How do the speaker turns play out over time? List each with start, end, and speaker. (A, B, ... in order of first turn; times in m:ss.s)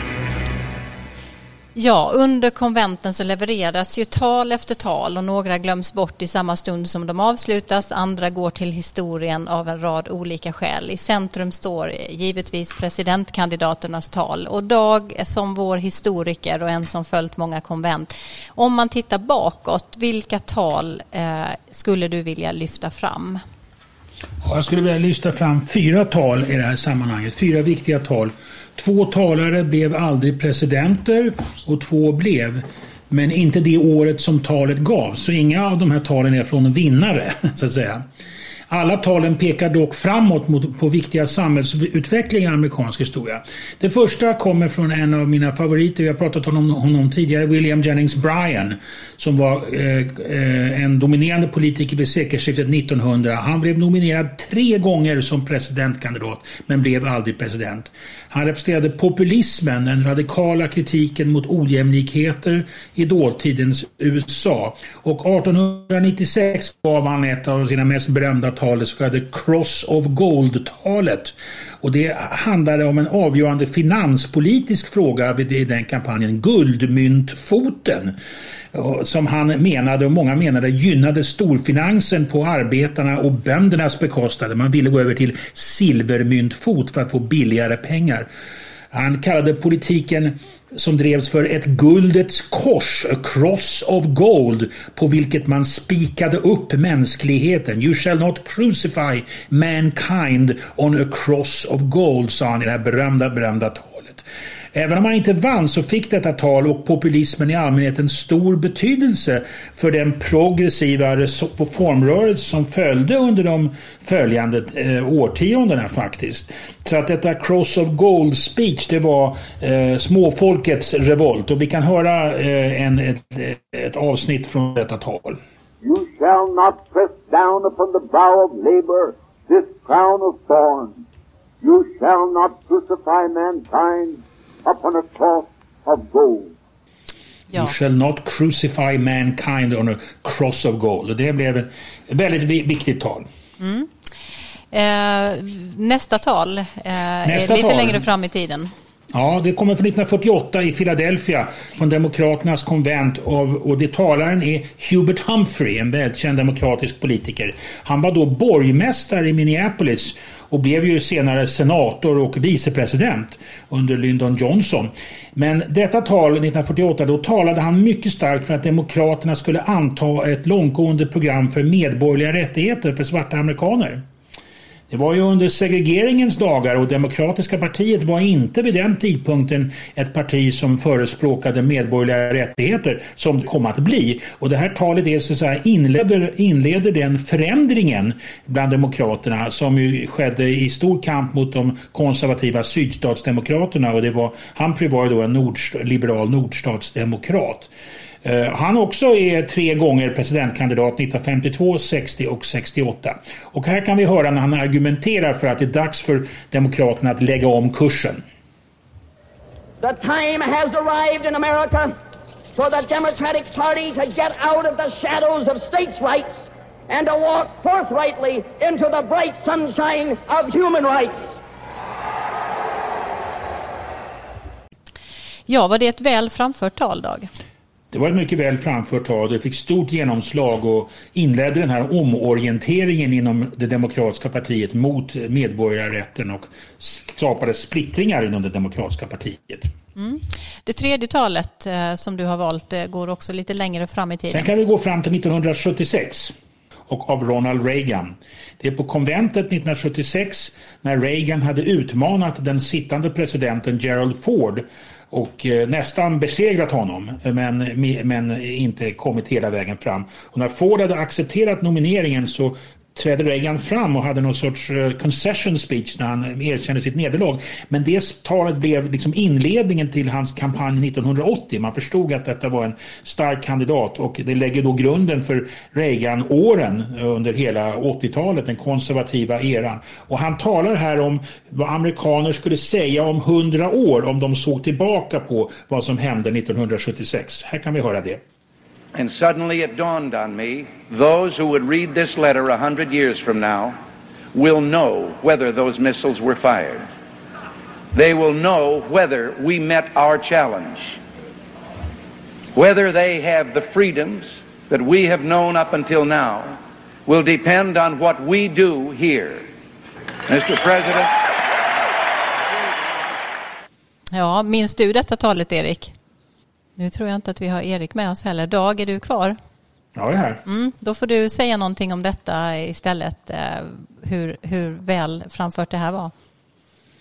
0:01.8-0:23.4 A
0:24.4-0:38.0 B
0:38.7-1:18.2 B
1:18.7-1:28.3 B
1:28.9-2:05.4 B
2:05.8-2:11.0 C
2:11.6-2:16.6 C
2:17.5-2:23.3 B
2:23.6-2:23.9 A
2:24.7-2:28.7 A
2:27.3-2:28.0 B
2:29.1-2:54.0 B
2:54.9-3:17.7 B
3:18.2-3:28.2 B
3:29.8-3:32.0 D
3:32.6-3:41.3 D
3:45.5-3:47.3 A
3:47.9-3:59.7 B
4:00.0-4:04.5 A
4:04.3-4:06.3 B
4:06.9-4:48.2 B
4:48.9-4:53.8 E
4:54.3-4:56.9 E
4:57.9-5:01.0 E
5:02.5-5:09.5 E
5:10.3-5:11.1 E
5:14.1-5:15.9 A
5:16.8-5:19.4 A
5:20.0-5:20.4 B
5:20.4-5:26.1 A